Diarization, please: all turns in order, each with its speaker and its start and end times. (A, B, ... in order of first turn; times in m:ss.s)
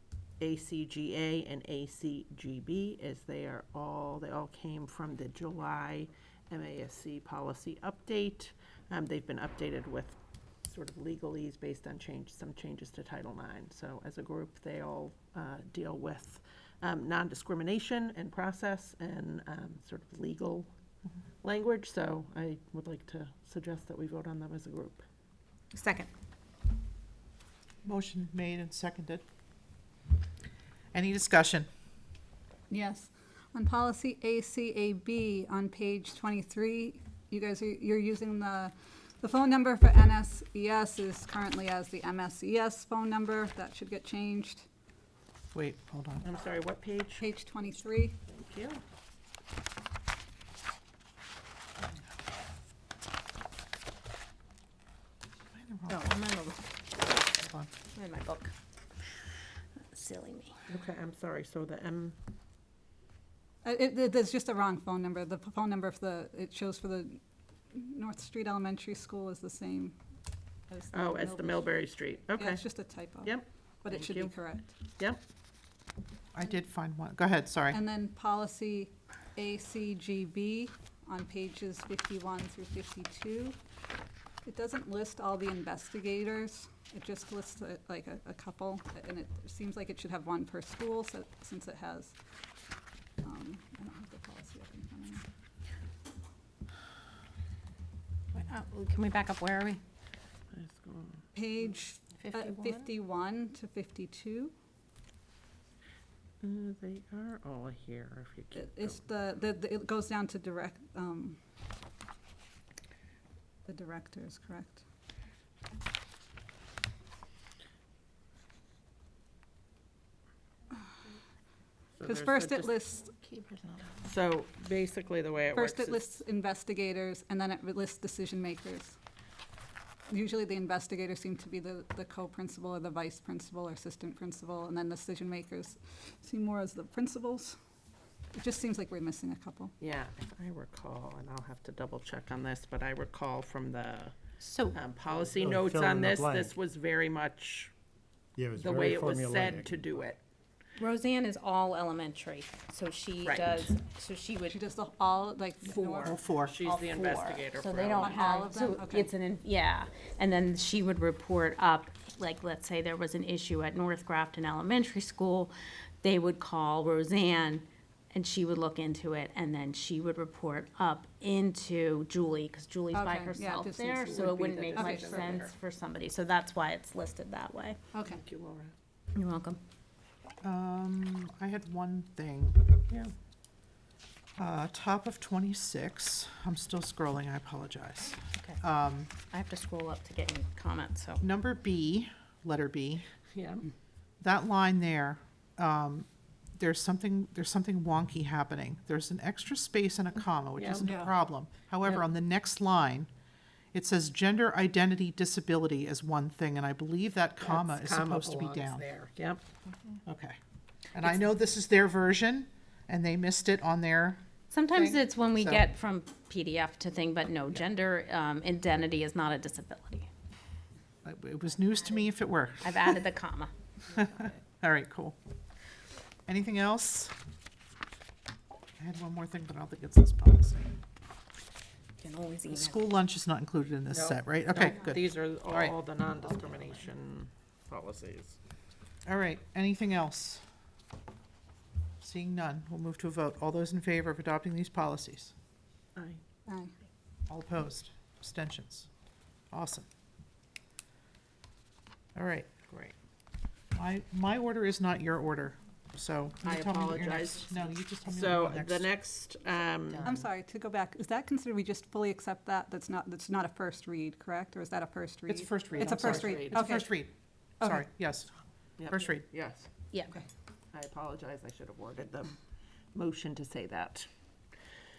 0:00.4-0:20.7 A
0:21.4-0:25.0 A
0:27.8-0:29.2 B
0:30.9-0:31.7 B
0:32.7-0:44.7 C
0:45.5-0:46.2 B
0:46.2-0:47.3 A
0:47.2-0:48.2 C
0:48.3-0:48.8 A
0:55.5-0:56.0 B
0:55.9-0:56.6 D
0:57.0-0:57.7 B
0:57.9-0:58.5 D
0:59.9-1:00.6 D
1:00.7-1:02.2 A
1:03.6-1:07.2 C
1:07.7-1:10.0 C
1:10.7-1:14.8 C
1:10.9-1:12.7 A
1:13.2-1:15.2 A
1:16.3-1:17.8 B
1:17.7-1:23.6 C
1:24.4-1:32.1 C
1:33.2-1:35.2 C
1:38.5-1:39.8 D
1:40.5-1:41.2 A
1:41.3-1:44.5 C
1:42.3-1:42.7 A
1:46.4-1:49.1 A
1:48.6-1:51.4 C
1:53.7-1:54.8 C
2:02.0-2:02.8 A
2:02.0-2:03.2 C
2:03.5-2:06.2 A
2:05.5-2:09.0 C
2:10.1-2:17.6 C
2:18.3-2:19.7 C
2:19.8-2:24.2 A
2:24.4-2:24.8 D
2:24.7-2:27.7 A
2:25.1-2:26.5 E
2:28.4-2:30.0 E
2:28.5-2:30.2 A
2:30.8-2:34.6 D
2:33.2-2:33.7 A
2:34.5-2:36.2 C
2:35.7-2:38.4 A
2:36.0-2:36.5 B
2:36.6-2:57.8 D
2:38.0-2:39.1 C
2:52.9-2:55.4 C
2:54.1-2:55.5 A
2:57.9-2:58.2 C
2:58.0-2:58.7 A
2:59.2-2:59.6 D
3:00.4-3:02.6 B
3:04.4-3:09.1 B
3:08.4-3:11.2 D
3:11.2-3:13.1 B
3:13.3-3:13.7 A
3:14.2-3:23.1 B
3:20.6-3:21.0 A
3:20.8-3:21.1 C
3:23.7-3:28.8 B
3:27.4-3:29.4 A
3:30.1-3:30.4 B
3:30.9-3:35.6 B
3:34.5-3:40.1 D
3:41.0-3:43.0 B
3:42.6-3:43.5 D
3:43.9-3:45.2 B
3:43.9-3:44.3 A
3:46.3-3:47.2 B
3:48.8-3:50.8 B
3:52.0-3:52.8 D
3:52.5-3:55.8 B
3:53.9-3:58.4 A
3:59.0-4:00.4 B
4:02.0-4:05.3 B
4:05.9-4:06.2 A
4:06.5-4:06.8 C
4:07.3-4:08.9 B
4:09.5-4:09.9 B
4:12.1-4:12.5 B
4:12.7-4:12.9 A
4:13.7-4:18.9 B
4:16.4-4:20.2 A
4:20.0-4:26.9 C
4:25.3-4:28.3 B
4:25.7-4:26.9 A
4:28.8-4:29.7 A
4:28.9-4:29.2 B
4:29.9-4:30.2 D
4:30.7-4:32.4 A
4:32.9-4:34.1 A